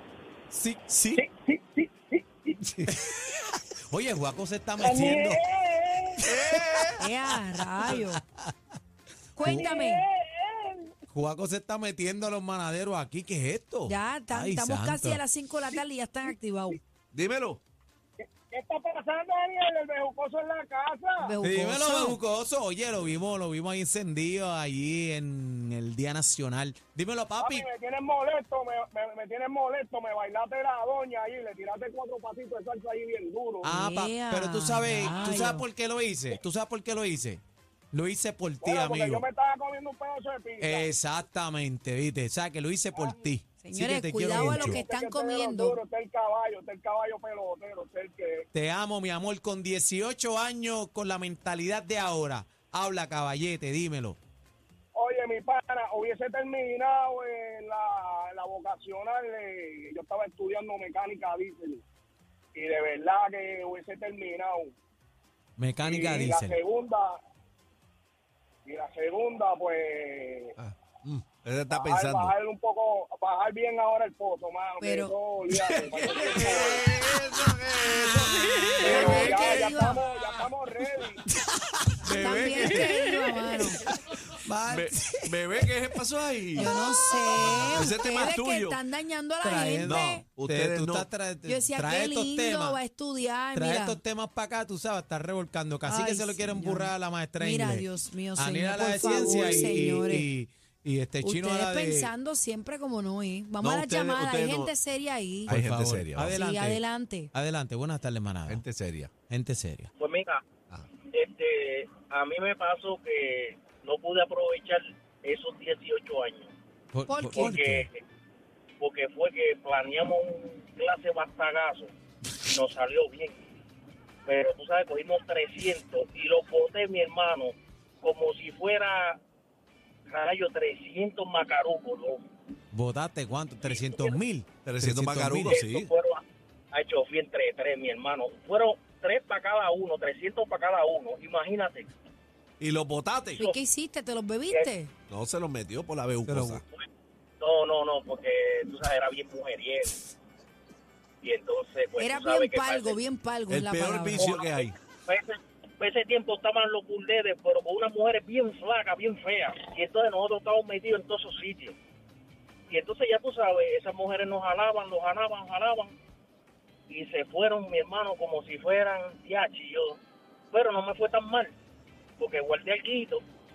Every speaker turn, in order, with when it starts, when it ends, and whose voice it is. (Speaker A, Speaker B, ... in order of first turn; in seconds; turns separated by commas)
Speaker A: 0.5-0.8, Speaker B: 0.9-1.2, Speaker C: 1.1-2.6, Speaker A: 2.7-5.4, Speaker C: 4.8-6.7, Speaker B: 6.2-7.0, Speaker D: 7.0-8.2, Speaker A: 7.8-8.5, Speaker D: 9.3-10.0, Speaker A: 9.4-9.7, Speaker C: 9.4-10.9, Speaker A: 11.1-15.2, Speaker D: 13.9-16.8, Speaker B: 17.1-17.6, Speaker C: 18.5-21.3, Speaker D: 21.2-22.2, Speaker A: 21.4-27.7, Speaker C: 27.4-33.7, Speaker A: 33.6-37.4, Speaker D: 33.6-35.6, Speaker A: 37.9-39.2, Speaker C: 38.6-40.9, Speaker A: 40.6-44.8, Speaker C: 42.9-43.3, Speaker D: 43.6-45.8, Speaker C: 44.2-48.5, Speaker A: 48.5-54.2, Speaker C: 54.9-61.8, Speaker C: 62.5-64.7, Speaker A: 65.6-66.5, Speaker C: 65.8-67.2, Speaker C: 68.7-70.5, Speaker B: 70.6-72.3, Speaker C: 71.7-76.9, Speaker D: 74.8-75.1, Speaker B: 75.5-79.9, Speaker A: 78.3-78.8, Speaker C: 78.8-81.2, Speaker D: 78.8-80.0, Speaker B: 82.0-83.0, Speaker A: 82.1-83.0, Speaker D: 82.2-83.8, Speaker A: 84.3-85.3, Speaker B: 84.7-86.8, Speaker D: 86.5-90.2, Speaker B: 87.5-88.8, Speaker A: 89.4-92.8, Speaker B: 89.8-91.1, Speaker D: 91.5-94.0, Speaker A: 93.5-102.1, Speaker D: 95.8-100.3, Speaker B: 99.3-99.7, Speaker D: 101.2-105.5, Speaker B: 103.6-104.7, Speaker A: 105.5-108.6, Speaker B: 105.5-106.4, Speaker D: 106.3-107.3, Speaker B: 108.5-109.1, Speaker A: 109.3-109.9, Speaker E: 110.0-110.4, Speaker E: 111.1-116.5, Speaker A: 116.9-117.9, Speaker D: 117.1-117.5, Speaker E: 117.3-118.0, Speaker E: 118.8-121.9, Speaker E: 122.5-123.4, Speaker E: 124.2-129.2, Speaker E: 130.1-132.2, Speaker A: 132.7-135.6, Speaker E: 133.6-134.2, Speaker B: 134.6-135.9, Speaker E: 135.5-141.9, Speaker B: 142.6-143.4, Speaker D: 143.3-144.9, Speaker B: 145.1-146.6, Speaker A: 146.2-146.6, Speaker E: 147.4-150.0, Speaker E: 151.2-153.0, Speaker D: 152.0-154.4, Speaker B: 153.5-154.7, Speaker E: 154.1-161.8, Speaker E: 162.7-165.9, Speaker E: 166.9-170.0, Speaker E: 170.5-171.5, Speaker E: 172.2-173.2